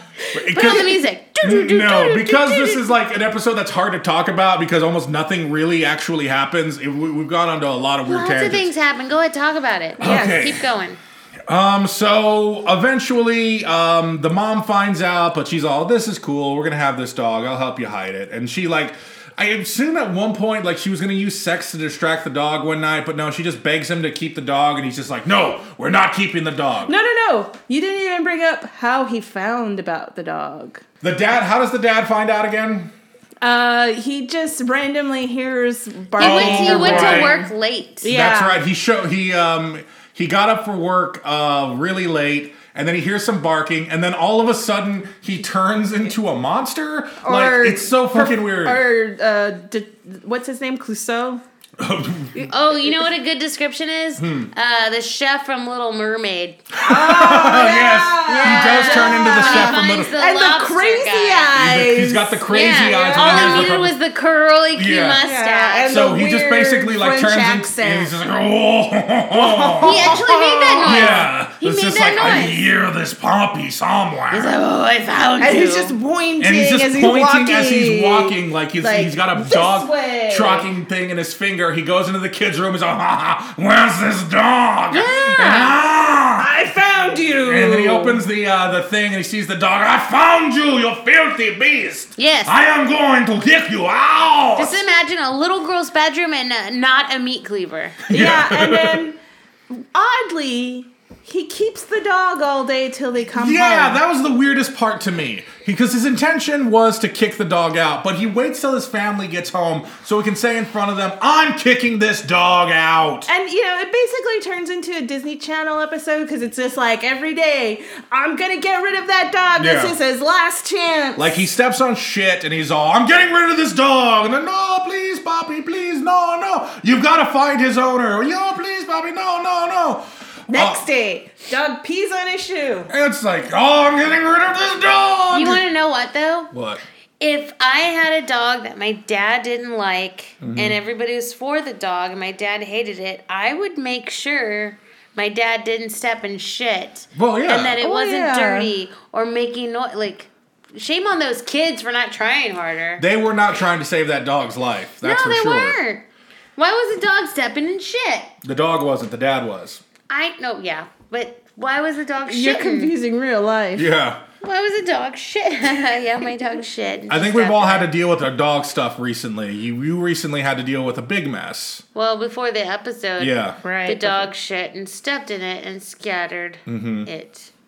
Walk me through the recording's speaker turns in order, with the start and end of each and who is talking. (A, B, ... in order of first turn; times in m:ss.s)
0:00.3-0:08.7 A
0:00.5-0:02.8 B
0:08.1-0:11.0 B
0:10.0-0:10.4 C
0:10.0-0:10.6 A
0:11.5-0:26.9 A
0:26.9-0:30.8 C
0:31.0-0:32.9 A
0:33.4-0:37.5 C
0:36.2-0:37.4 A
0:36.2-0:38.0 B
0:38.0-0:38.6 C
0:38.1-0:48.8 A
0:47.2-0:51.4 C
0:51.8-0:52.5 A
0:52.5-0:56.7 B
0:54.2-0:54.5 A
0:56.7-1:00.2 A
0:56.8-1:03.7 C
0:58.3-1:01.6 B
1:01.6-1:04.0 A
1:02.5-1:06.0 B
1:04.7-1:05.2 A
1:05.2-1:08.2 C
1:05.9-1:14.6 A
1:09.3-1:10.3 C
1:09.8-1:12.6 B
1:14.3-1:16.0 B
1:15.4-1:20.7 C
1:16.4-1:26.5 A
1:24.9-1:25.8 B
1:26.4-1:28.2 C
1:27.5-1:34.8 A
1:32.2-1:32.6 B
1:34.6-1:38.0 B
1:38.1-1:39.0 A
1:38.1-1:39.2 C
1:39.7-1:44.0 C
1:43.4-1:53.3 A
1:53.3-2:01.4 C
1:59.6-2:00.0 A
2:01.2-2:10.9 A
2:10.5-2:12.9 C
2:12.9-2:15.6 A
2:15.3-2:16.5 B
2:16.5-2:16.8 A
2:17.2-2:33.0 B
2:20.4-2:20.8 A
2:27.2-2:27.8 A
2:27.8-2:28.7 C
2:33.0-2:35.8 A
2:35.0-2:36.0 B
2:36.6-2:38.3 B
2:38.4-2:39.8 A
2:40.1-2:42.9 B
2:42.3-2:43.9 C
2:43.8-2:44.2 A
2:44.4-2:47.9 B
2:47.1-2:51.8 A
2:52.0-2:57.5 B
2:53.2-2:53.6 A
2:53.6-2:54.3 C
2:56.7-2:57.1 A